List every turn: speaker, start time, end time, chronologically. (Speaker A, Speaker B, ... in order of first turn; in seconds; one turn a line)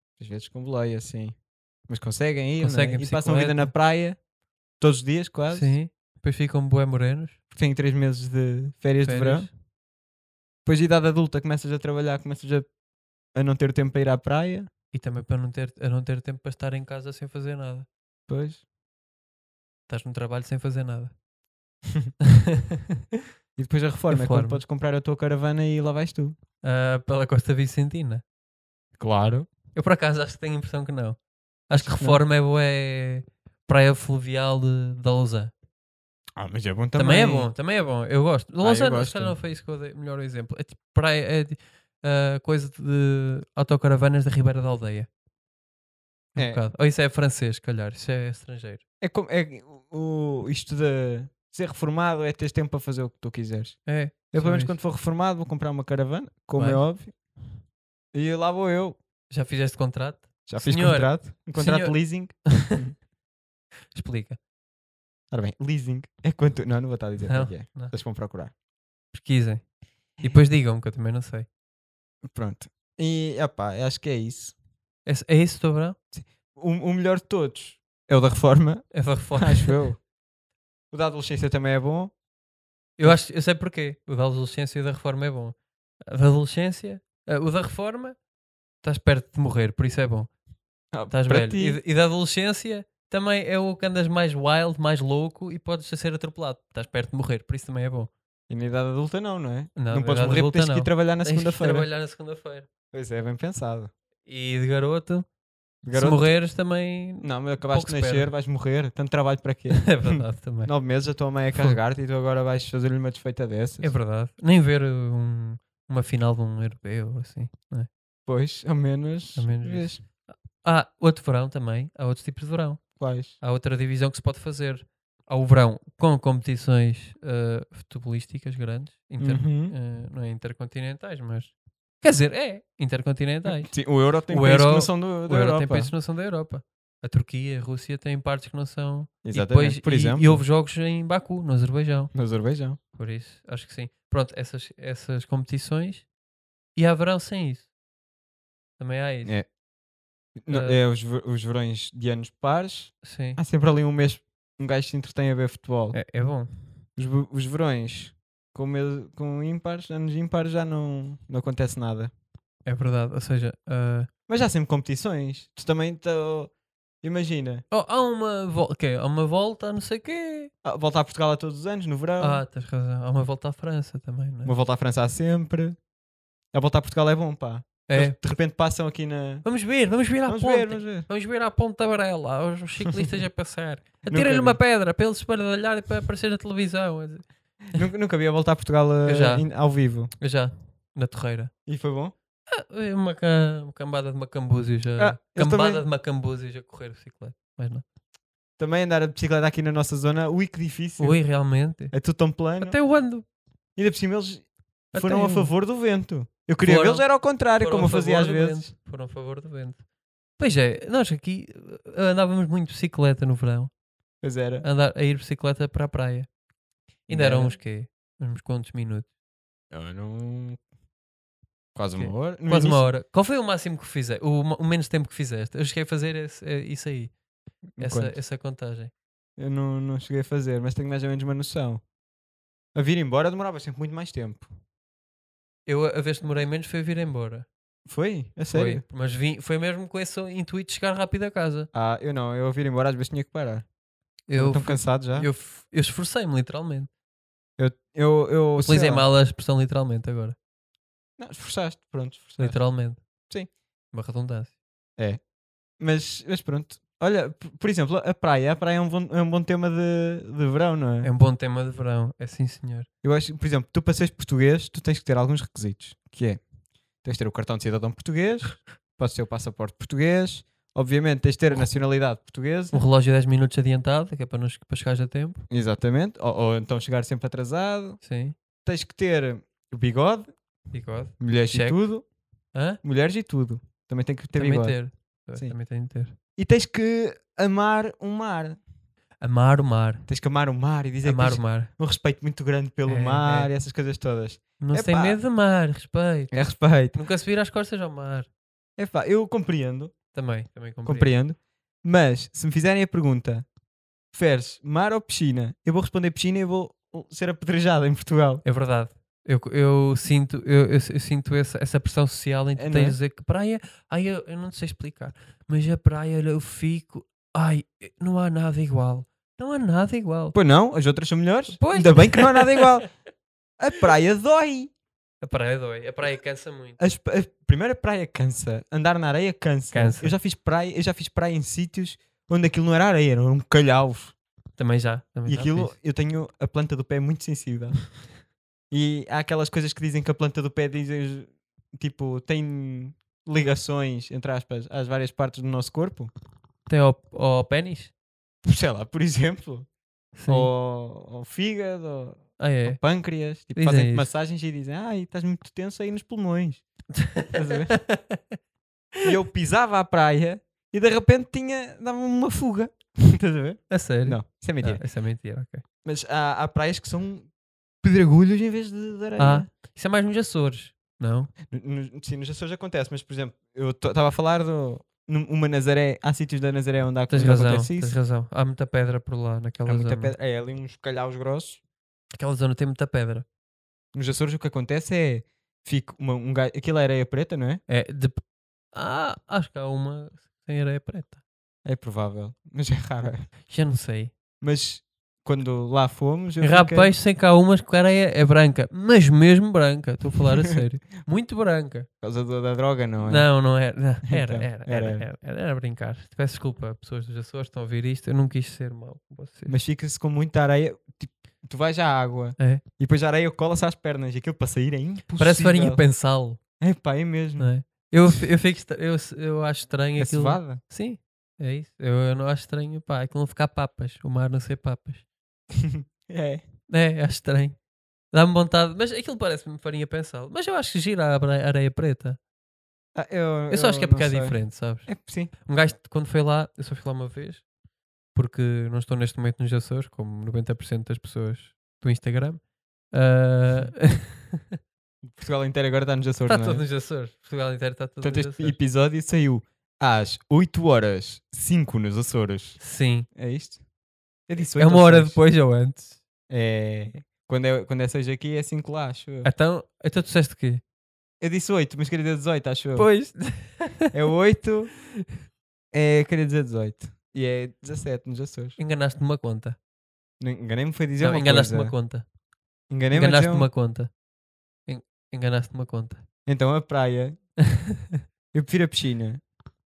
Speaker A: 0.2-1.4
Speaker A: 1.9-4.2
Speaker B: 2.6-3.7
Speaker A: 4.8-5.8
Speaker B: 5.5-7.4
Speaker A: 7.5-9.5
Speaker B: 9.0-9.5
Speaker A: 10.6-12.7
Speaker A: 13.3-14.7
Speaker B: 14.9-17.9
Speaker A: 18.3-18.6
Speaker B: 19.9-21.2
Speaker A: 23.6-26.4
Speaker B: 24.1-24.6
Speaker B: 26.6-28.2
Speaker A: 29.0-29.5
Speaker B: 29.7-35.5
Speaker A: 31.7-32.2
Speaker A: 36.4-37.5
Speaker B: 37.0-45.1
Speaker A: 38.6-39.4
Speaker B: 46.3-48.8
Speaker A: 46.4-46.6
Speaker A: 49.0-57.1
Speaker B: 53.9-54.8
Speaker B: 56.6-56.9
Speaker A: 58.1-59.0
Speaker B: 59.3-62.8
Speaker A: 60.5-63.0
Speaker B: 63.9-64.4
Speaker A: 65.3-68.5
Speaker B: 67.2-67.9
Speaker B: 69.1-69.6
Speaker B: 70.2-71.5
Speaker A: 72.2-74.5
Speaker B: 75.1-76.0
Speaker A: 76.1-80.0
Speaker B: 78.9-79.8
Speaker A: 80.9-82.1
Speaker B: 83.0-85.6
Speaker B: 86.1-88.2
Speaker B: 88.8-90.3
Speaker A: 90.9-91.8
Speaker B: 91.1-98.1
Speaker A: 98.5-101.9
Speaker B: 99.8-102.7
Speaker A: 102.9-103.9
Speaker B: 104.2-105.3
Speaker A: 105.8-106.3
Speaker B: 105.9-108.3
Speaker A: 107.2-113.9
Speaker B: 109.7-110.7
Speaker B: 111.5-111.8
Speaker B: 113.8-117.9
Speaker A: 118.2-120.0
Speaker B: 119.3-133.8
Speaker A: 123.0-123.3
Speaker A: 129.2-129.7
Speaker A: 133.4-135.9
Speaker B: 134.3-142.1
Speaker A: 139.2-140.4
Speaker A: 142.1-142.8
Speaker B: 142.9-146.1
Speaker B: 146.8-147.7
Speaker B: 148.8-149.4
Speaker A: 149.2-149.5
Speaker A: 150.4-156.0
Speaker B: 150.5-150.8
Speaker B: 153.0-153.4
Speaker B: 155.9-156.7
Speaker A: 157.0-162.1
Speaker B: 162.7-164.1
Speaker A: 164.3-167.6
Speaker B: 167.7-170.5
Speaker A: 170.6-172.4
Speaker B: 172.2-174.5
Speaker A: 174.4-175.8
Speaker A: 176.5-179.4
Speaker B: 177.9-178.2
Speaker B: 179.4-187.8
Speaker A: 180.2-181.1
Speaker A: 184.0-184.6
Speaker A: 187.7-190.1
Speaker B: 189.1-189.5
Speaker B: 190.2-191.5
Speaker A: 191.7-192.1
Speaker B: 192.5-197.8
Speaker A: 195.0-195.8
Speaker A: 198.6-201.2
Speaker B: 201.0-201.9
Speaker A: 201.9-202.8
Speaker B: 202.6-203.2
Speaker A: 203.8-208.7
Speaker B: 204.9-205.5
Speaker B: 206.6-209.8
Speaker B: 210.4-213.7
Speaker A: 214.2-214.6
Speaker B: 214.6-216.3
Speaker B: 217.1-219.1
Speaker A: 217.1-217.6
Speaker A: 219.7-220.6
Speaker A: 221.8-222.8
Speaker B: 221.9-227.1
Speaker A: 227.8-228.2
Speaker B: 227.8-228.9
Speaker A: 229.4-231.8
Speaker A: 232.8-234.5
Speaker B: 235.7-237.5
Speaker A: 237.9-238.8
Speaker B: 238.5-241.7
Speaker A: 241.7-243.7
Speaker B: 244.3-246.9
Speaker A: 244.3-245.3
Speaker A: 247.6-249.1
Speaker B: 248.6-250.4
Speaker A: 251.2-252.6
Speaker B: 252.4-253.0
Speaker B: 253.9-254.5
Speaker A: 255.8-261.1
Speaker B: 261.0-262.9
Speaker A: 263.0-266.4
Speaker A: 267.0-272.8
Speaker B: 272.7-275.4
Speaker A: 275.5-278.0
Speaker B: 278.0-278.4
Speaker A: 278.6-280.3
Speaker B: 280.7-281.8
Speaker A: 281.2-282.1
Speaker B: 282.5-282.8
Speaker A: 282.8-284.8
Speaker B: 284.3-286.1
Speaker A: 286.4-288.6
Speaker B: 289.2-290.1
Speaker A: 290.1-295.2
Speaker B: 291.0-291.7
Speaker B: 292.9-293.5
Speaker B: 294.6-298.3
Speaker A: 296.3-297.0
Speaker A: 298.8-300.0
Speaker B: 300.1-301.1
Speaker A: 300.9-303.5
Speaker A: 304.1-308.4
Speaker B: 308.4-320.4
Speaker A: 312.6-313.0
Speaker A: 320.3-322.9
Speaker B: 321.5-322.8
Speaker A: 323.6-324.7
Speaker B: 325.2-326.8
Speaker A: 326.8-334.1
Speaker B: 329.7-330.1
Speaker B: 334.6-335.8
Speaker A: 335.2-338.0
Speaker A: 338.7-346.1
Speaker B: 346.7-347.9
Speaker A: 348.4-349.7
Speaker B: 350.1-350.5
Speaker A: 350.3-356.6
Speaker B: 352.4-352.8
Speaker B: 353.5-354.1
Speaker B: 357.0-358.2
Speaker A: 357.3-357.8
Speaker A: 359.0-364.8
Speaker B: 363.7-365.6
Speaker A: 365.9-367.3
Speaker A: 367.8-369.5
Speaker B: 369.2-371.3
Speaker A: 371.5-377.9
Speaker B: 377.1-380.1
Speaker A: 379.6-381.6
Speaker B: 382.2-383.2
Speaker A: 383.9-387.6
Speaker B: 387.7-388.2
Speaker B: 388.7-391.2
Speaker A: 391.6-393.3
Speaker B: 393.5-394.1
Speaker A: 394.4-396.9
Speaker B: 396.4-401.9
Speaker A: 402.0-403.3
Speaker B: 403.0-409.6
Speaker A: 404.1-405.0
Speaker A: 409.5-415.9
Speaker B: 412.4-412.6
Speaker B: 415.2-416.4
Speaker A: 416.6-417.5
Speaker B: 417.4-425.0
Speaker A: 420.0-420.6
Speaker A: 425.5-426.4
Speaker B: 426.7-427.6
Speaker B: 428.1-432.2
Speaker A: 432.9-435.3
Speaker B: 433.5-437.4
Speaker B: 438.1-444.5
Speaker A: 445.0-446.6
Speaker B: 446.2-448.6
Speaker A: 448.0-452.6
Speaker B: 452.6-453.1
Speaker A: 453.1-453.6
Speaker A: 454.3-455.2
Speaker B: 454.5-456.0
Speaker A: 456.3-459.3
Speaker B: 459.2-460.6
Speaker A: 461.2-462.9
Speaker B: 462.8-463.9
Speaker A: 463.9-464.8
Speaker A: 465.7-468.6
Speaker B: 468.6-469.6
Speaker A: 470.2-471.8
Speaker B: 471.0-472.1
Speaker A: 472.7-473.5
Speaker B: 472.9-473.9
Speaker B: 474.6-476.0
Speaker A: 476.2-477.2
Speaker A: 478.3-479.2